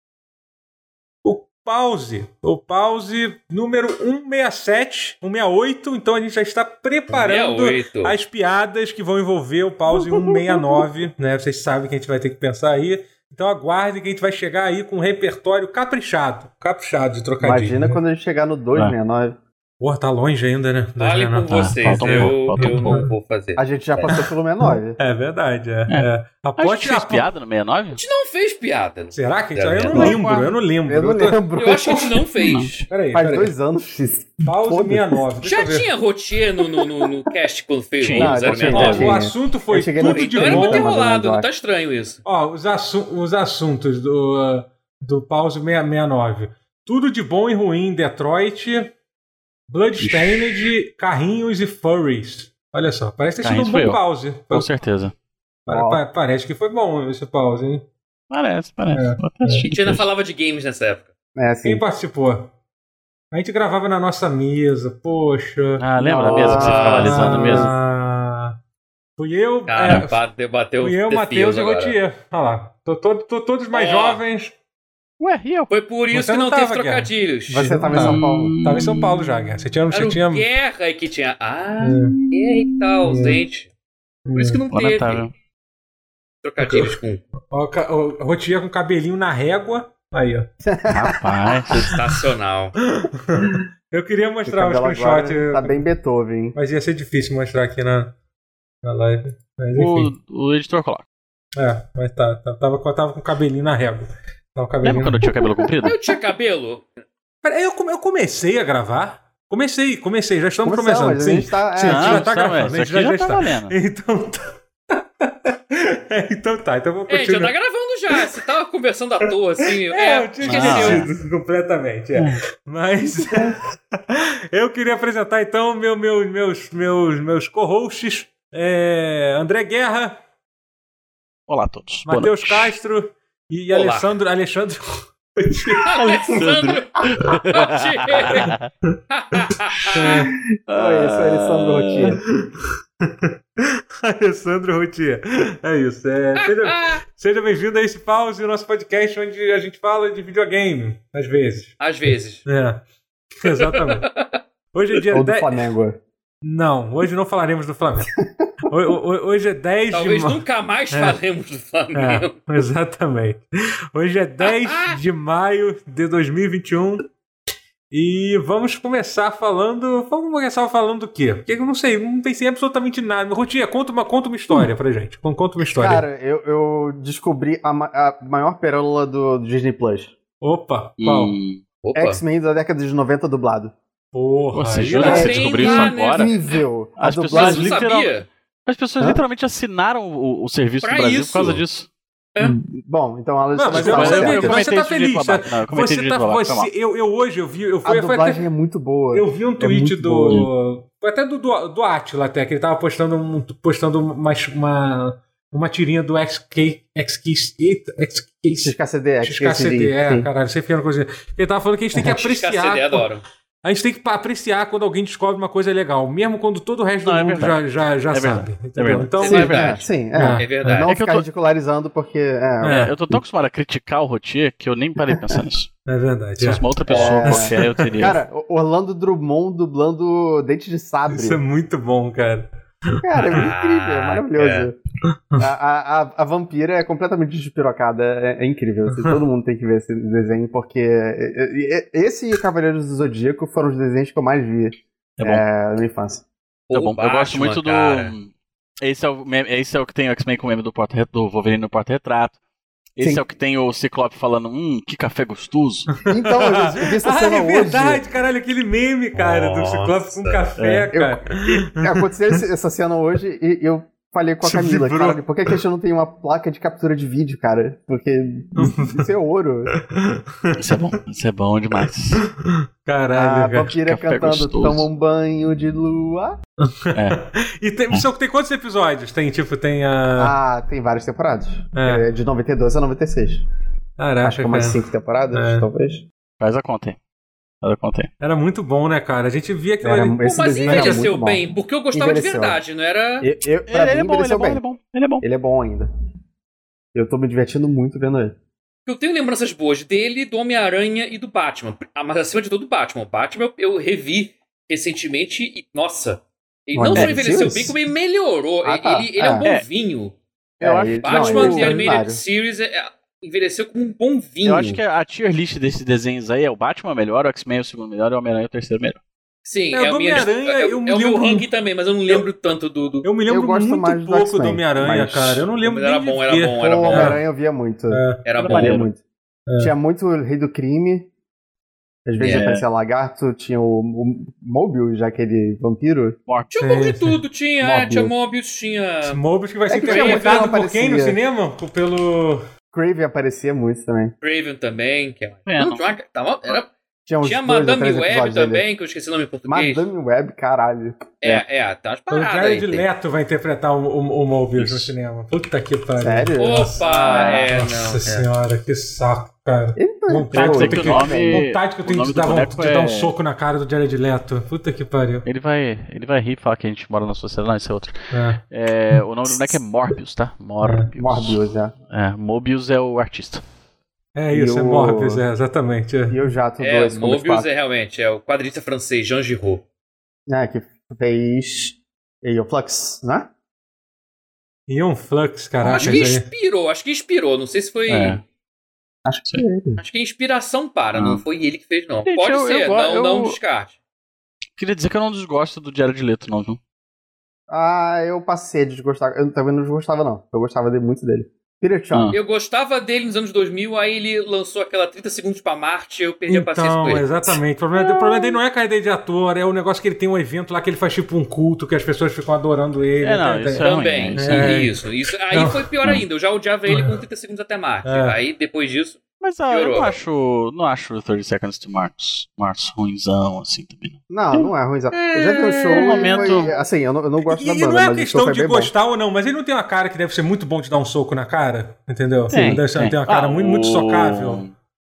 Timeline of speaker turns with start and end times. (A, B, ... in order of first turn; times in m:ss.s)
0:01.2-0:18.0 A
0:07.1-0:08.2 B
0:17.4-0:19.4 C
0:19.8-0:23.1 A
0:21.0-0:24.2 B
0:21.5-0:23.1 D
0:23.6-0:25.0 C
0:24.1-0:27.3 A
0:25.9-0:28.0 D
0:28.0-0:30.2 B
0:29.1-0:32.1 A
0:29.9-0:32.3 C
0:29.9-0:30.2 D
0:31.6-0:32.9 B
0:32.4-0:32.7 D
0:32.9-0:33.5 A
0:33.1-0:35.2 C
0:34.5-0:35.9 A
0:35.4-0:39.2 B
0:38.0-0:39.2 D
0:38.2-0:41.5 C
0:38.7-0:41.0 A
0:40.0-0:42.2 B
0:42.2-0:48.9 A
0:49.7-0:54.7 A
0:50.0-0:50.6 D
0:53.4-0:55.2 D
0:55.7-0:57.9 A
0:55.7-0:56.0 C
0:58.3-1:00.1 D
0:58.9-0:59.7 A
0:59.7-1:01.1 B
1:01.4-1:01.8 C
1:01.6-1:02.5 A
1:03.3-1:08.6 A
1:05.8-1:07.7 D
1:06.0-1:07.8 C
1:06.4-1:07.3 B
1:09.2-1:10.2 A
1:09.7-1:12.0 B
1:10.8-1:14.5 A
1:13.7-1:14.2 B
1:15.2-1:15.7 D
1:15.7-1:17.7 B
1:16.1-1:20.5 A
1:17.5-1:18.6 C
1:17.9-1:19.5 D
1:19.9-1:23.7 B
1:21.8-1:22.2 A
1:22.1-1:23.2 D
1:23.0-1:23.4 A
1:24.3-1:24.6 A
1:24.4-1:25.2 B
1:24.7-1:25.3 D
1:26.4-1:27.2 B
1:26.6-1:27.0 A
1:27.5-1:30.5 A
1:30.7-1:31.2 C
1:30.9-1:31.8 D
1:31.7-1:32.8 B
1:32.8-1:35.8 A
1:34.5-1:36.6 C
1:36.6-1:38.2 A
1:38.8-1:40.1 A
1:39.7-1:41.0 D
1:41.6-1:45.3 A
1:44.8-1:46.0 D
1:45.8-1:46.9 B
1:47.4-1:57.5 A
1:50.6-1:52.3 C
1:51.9-1:53.7 D
1:57.1-2:01.1 B
1:59.8-2:10.2 A
2:00.4-2:01.1 D
2:02.2-2:02.4 D
2:03.2-2:03.6 C
2:11.5-2:12.7 D
2:12.0-2:16.2 A
2:13.7-2:14.1 B
2:15.8-2:18.5 B
2:16.0-2:18.7 D
2:18.4-2:19.0 A
2:19.1-2:20.2 B
2:19.9-2:20.3 A
2:20.7-2:22.2 D
2:20.7-2:22.2 C
2:22.4-2:31.8 A
2:26.4-2:27.0 B
2:31.8-2:32.4 B
2:32.4-2:32.8 A
2:33.4-2:34.1 A
2:33.4-2:34.4 B
2:34.7-2:35.6 A
2:35.1-2:36.0 C
2:36.4-2:40.4 A
2:38.2-2:38.5 C
2:39.9-2:42.5 B
2:40.9-2:41.2 A
2:41.9-2:47.1 A
2:44.4-2:45.0 B
2:47.9-2:56.0 A
2:55.6-3:00.1 C
3:00.4-3:01.4 A
3:01.0-3:01.6 D
3:01.8-3:02.2 B
3:02.0-3:03.8 C
3:04.1-3:05.6 A
3:04.5-3:06.3 D
3:05.0-3:06.5 B
3:05.0-3:07.8 C
3:07.0-3:11.9 D
3:07.3-3:08.3 B
3:10.8-3:11.6 B
3:12.4-3:14.7 C
3:13.6-3:18.5 A
3:13.7-3:16.7 D
3:17.8-3:20.5 C
3:19.1-3:33.1 A
3:28.6-3:30.3 C
3:31.9-3:32.3 C
3:32.1-3:33.2 B
3:33.6-3:39.5 A
3:37.0-3:39.8 D
3:39.2-3:40.9 B
3:39.2-3:42.9 C
3:40.1-3:40.9 A
3:40.9-3:41.3 D
3:42.6-3:45.7 D
3:42.6-3:43.0 A
3:45.0-3:45.4 C
3:45.9-3:48.0 A
3:46.4-3:48.2 D
3:46.9-3:51.4 C
3:51.1-3:53.5 A
3:53.0-3:54.8 C
3:53.2-3:54.7 B
3:55.4-4:06.2 C
4:05.2-4:05.4 D
4:06.7-4:08.1 B
4:06.7-4:12.4 D
4:13.0-4:15.9 D
4:13.0-4:13.2 C
4:16.0-4:22.4 A
4:16.1-4:18.0 C
4:19.1-4:20.4 B
4:20.6-4:20.9 D
4:20.9-4:29.8 C
4:24.4-4:25.3 A
4:28.6-4:29.1 A
4:29.7-4:30.8 A
4:30.6-4:32.2 D
4:32.2-4:33.7 A
4:33.1-4:36.4 C
4:33.8-4:34.9 D
4:36.6-4:40.4 A
4:36.9-4:37.2 D
4:40.2-4:43.4 C
4:41.8-4:42.0 A
4:44.0-4:44.8 A
4:44.2-4:46.0 C
4:45.3-4:45.7 A
4:46.4-4:47.0 D
4:47.6-4:48.1 D
4:48.2-4:51.0 A
4:49.8-4:52.6 C
4:50.2-4:53.3 B
4:53.2-4:54.6 C
4:53.7-4:55.2 D
4:55.2-4:55.9 C
4:56.9-4:58.4 C
4:58.9-5:10.2 B
5:06.8-5:07.8 C
5:07.0-5:07.2 D
5:08.6-5:09.4 C
5:10.6-5:12.2 C
5:10.6-5:11.7 D
5:11.0-5:14.8 B
5:14.4-5:19.0 D
5:19.4-5:23.1 B
5:19.7-5:21.5 A
5:23.0-5:27.2 A
5:23.3-5:25.5 C
5:25.6-5:27.2 B
5:26.6-5:29.0 C
5:27.9-5:28.3 A
5:28.2-5:28.9 B
5:28.4-5:28.9 D
5:29.5-5:29.7 A
5:29.6-5:31.1 C
5:32.1-5:36.2 C
5:32.2-5:32.5 B
5:32.2-5:32.6 D
5:36.3-5:36.6 D
5:36.5-5:39.2 B
5:36.6-5:37.2 A
5:37.6-5:38.1 C
5:39.0-5:42.5 A
5:39.7-5:41.2 C
5:39.8-5:40.6 B
5:42.7-5:44.2 C
5:44.2-5:46.7 B
5:45.5-5:45.8 D
5:47.1-5:48.7 C
5:47.2-5:49.9 B
5:49.5-5:51.1 C
5:51.2-5:52.9 B
5:52.1-6:05.3 A
5:54.6-5:54.9 D
5:56.0-5:57.6 C
5:56.4-5:58.3 B
5:59.8-6:01.4 C
6:00.3-6:03.2 D
6:05.2-6:13.4 D
6:08.1-6:08.4 A
6:10.6-6:10.9 A
6:11.0-6:11.7 C
6:14.2-6:16.2 A
6:14.3-6:15.2 C
6:16.1-6:17.5 C
6:16.6-6:19.6 B
6:20.3-6:23.3 C
6:24.7-6:26.3 A
6:25.6-6:28.2 B
6:27.9-6:28.2 D
6:29.0-6:29.8 C
6:29.8-6:33.7 B
6:31.0-6:31.2 D
6:32.1-6:33.4 D
6:34.6-6:36.6 D
6:37.5-6:42.2 C
6:41.9-6:42.2 D
6:42.1-6:47.4 B
6:46.3-6:53.7 A
6:53.0-6:54.6 D
6:53.6-7:00.0 B
6:54.2-6:56.0 A
6:56.7-6:57.0 A
6:57.8-6:58.2 A
6:59.2-7:04.5 D
7:04.1-7:08.7 C
7:05.2-7:06.5 D
7:05.3-7:06.6 B
7:07.2-7:14.4 A
7:12.3-7:14.5 D